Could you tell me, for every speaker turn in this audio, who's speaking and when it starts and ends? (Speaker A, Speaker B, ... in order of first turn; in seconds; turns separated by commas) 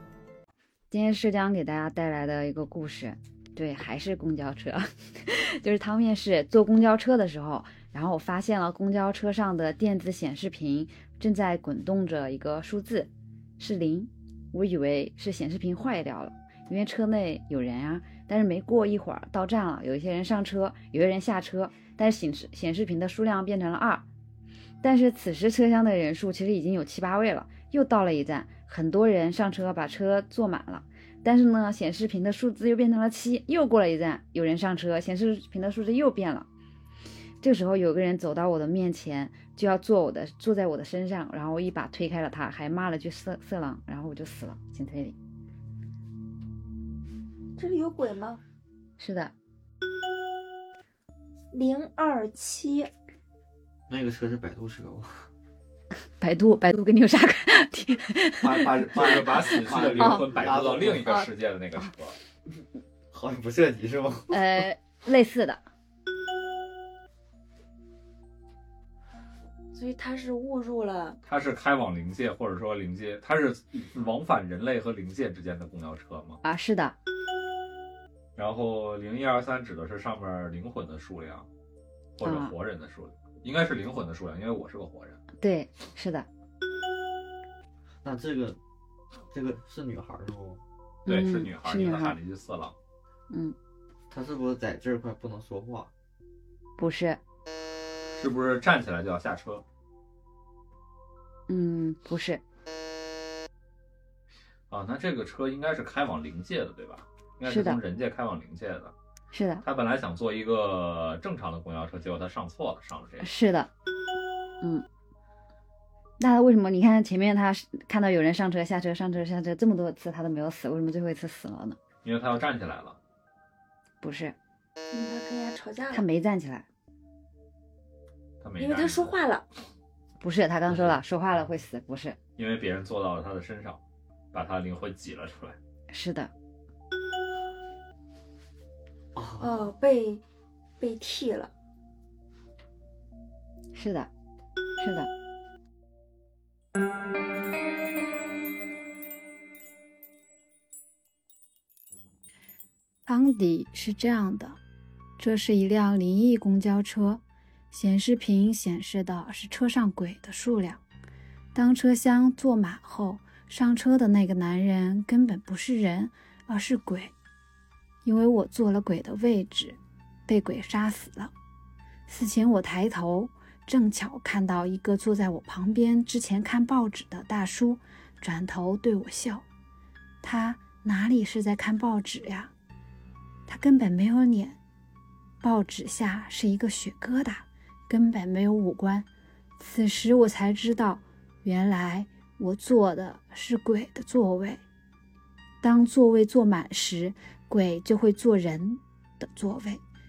Speaker A: 0.9-24.0, Speaker A: 24.8-36.5, Speaker A: 37.4-45.1, Speaker B: 47.5-48.4, Speaker A: 49.0-49.3, Speaker B: 51.5-52.9, Speaker C: 53.9-55.2, Speaker A: 56.2-58.6, Speaker C: 58.4-61.2, Speaker D: 58.9-62.2, Speaker A: 59.6-60.1, Speaker C: 63.1-64.6, Speaker A: 64.3-65.6, Speaker B: 69.7-71.2, Speaker D: 71.2-76.4, Speaker A: 76.4-77.0, Speaker D: 78.3-81.5, Speaker D: 82.2-85.2, Speaker A: 82.2-82.5, Speaker A: 85.4-86.3, Speaker C: 88.0-88.6, Speaker C: 89.3-90.6, Speaker A: 91.0-92.2, Speaker D: 91.0-92.8, Speaker A: 93.3-93.5, Speaker C: 94.1-95.9, Speaker A: 96.8-97.2, Speaker D: 98.1-99.6, Speaker A: 101.5-102.4, Speaker D: 104.7-108.9, Speaker A: 107.4-107.8, Speaker A: 109.3-109.6, Speaker D: 109.6-113.3, Speaker A: 113.2-113.7, Speaker A: 116.2-121.8, Speaker D: 122.0-123.0, Speaker A: 124.0-124.3, Speaker B: 124.9-126.0, Speaker A: 125.9-126.7, Speaker D: 128.4-129.2, Speaker B: 128.6-129.4, Speaker A: 130.2-132.2, Speaker D: 132.4-133.8, Speaker D: 134.3-135.6, Speaker A: 135.9-136.3, Speaker C: 139.2-139.7, Speaker B: 139.4-140.2, Speaker B: 140.8-141.5, Speaker A: 143.7-144.1, Speaker A: 144.8-145.1, Speaker E: 153.1-154.6, Speaker E: 155.2-160.8, Speaker E: 161.5-167.1, Speaker E: 168.0-171.3, Speaker E: 172.1-179.4, Speaker E: 180.2-182.5, Speaker E: 183.5-184.6, Speaker E: 185.4-189.1, Speaker E: 189.6-194.6, Speaker E: 195.6-199.8